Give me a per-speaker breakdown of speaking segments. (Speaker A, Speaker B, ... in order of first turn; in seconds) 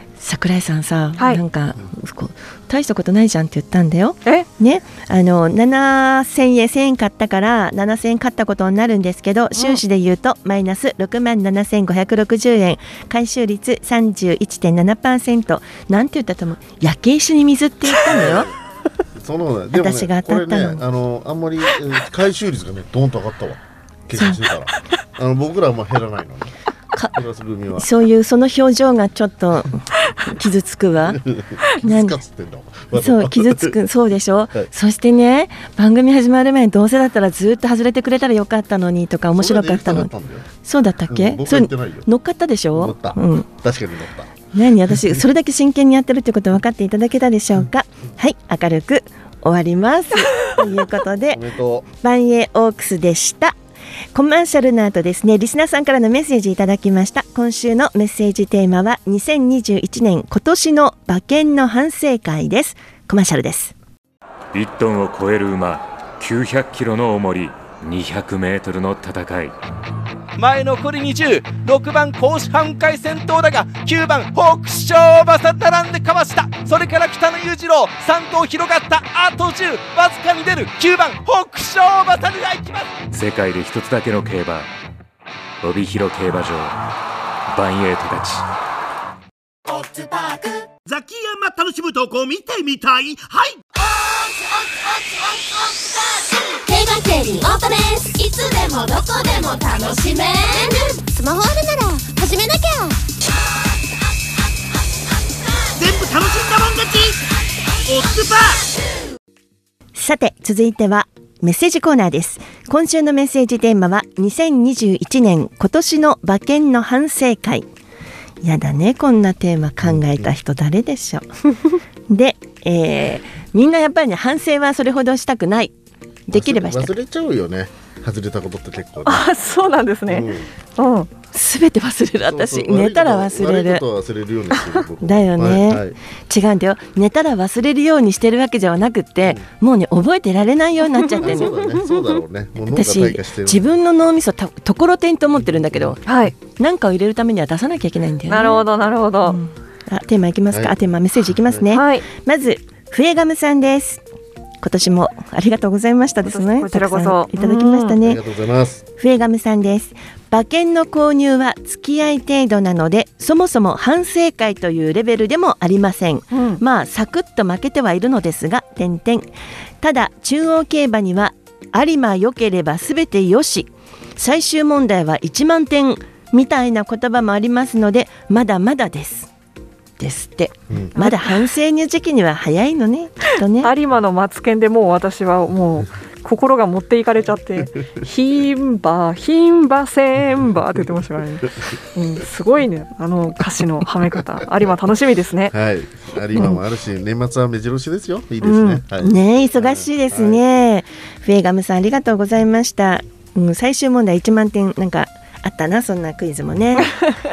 Speaker A: 0.2-18.5, 19.7-20.8, 24.1-24.4, 27.7-31.2, 31.8-32.1, 32.9-40.1, 40.6-43.5, 44.5-51.4, 52.0-53.5, 54.1-63.7, 110.0-117.7, 118.4-121.3, 122.1-125.7, 126.3-126.9, 131.3-133.8, 135.0-141.6, 142.7-148.6, 149.2-154.0, 154.6-158.2, 159.0-169.2, 169.8-179.3, 180.0-183.7, 198.9-206.9
Speaker B: 18.0-18.5, 19.1-26.5, 27.1-27.9, 31.1-33.7, 39.4-40.5, 41.1-42.1, 42.7-44.3, 50.6-51.9, 119.8-120.3, 126.3-129.2, 130.1-130.5, 132.2-135.9, 141.2-143.7, 158.0-158.8, 195.5-200.4
Speaker C: 64.5-69.5, 83.1-84.7, 85.6-86.8, 87.5-88.4
Speaker D: 70.4-82.9
Speaker E: 90.8-93.6, 105.8-107.2, 107.8-108.7
Speaker F: 96.7-103.0
Speaker G: 129.1-131.1, 146.1-146.3, 148.3-149.4, 151.7-152.1, 156.2-158.0, 166.3-166.6, 181.0-181.4, 183.6-195.5, 198.4-198.8